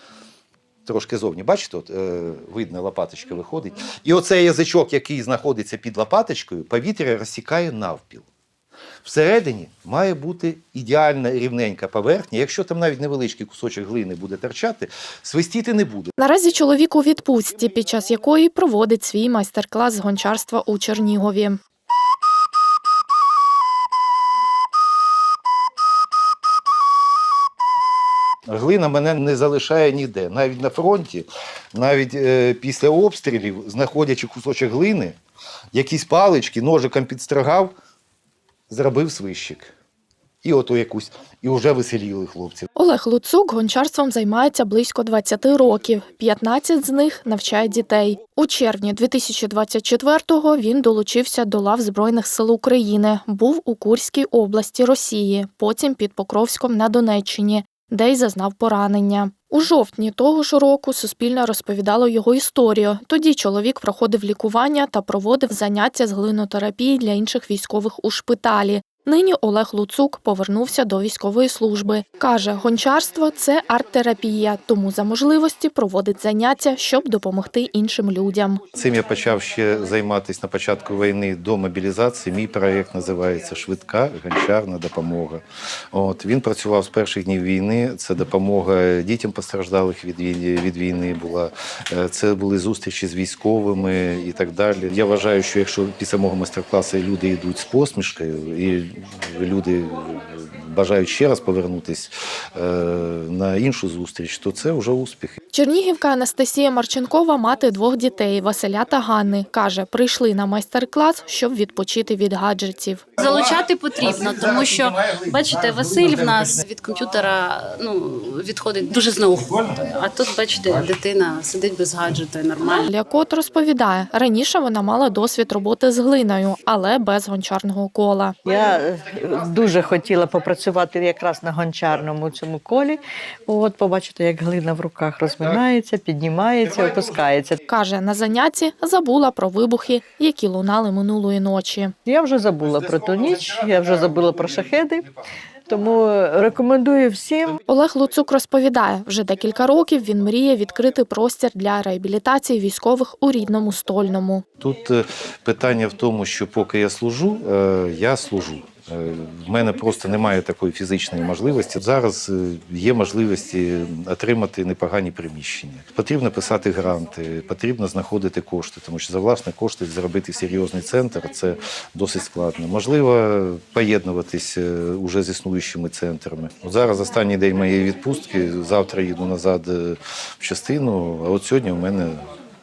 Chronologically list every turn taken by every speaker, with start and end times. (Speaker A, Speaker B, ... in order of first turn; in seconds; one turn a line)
Speaker A: 0.8-8.2
Speaker A: 9.0-16.1
Speaker B: 16.2-21.6
Speaker A: 28.5-35.1
Speaker A: 35.7-37.7
Speaker A: 38.7-39.7
Speaker A: 40.4-42.7
Speaker B: 42.8-78.7
Speaker A: 78.8-85.4
Speaker A: 85.9-105.4
Speaker B: 105.5-113.2
Speaker C: 113.2-122.9
Speaker B: 122.8-128.4
Speaker D: 128.4-137.6
Speaker B: 137.7-141.9
Speaker D: 142.1-145.1
Speaker D: 145.7-147.6
Speaker B: 147.7-154.4
Speaker A: 154.6-182.2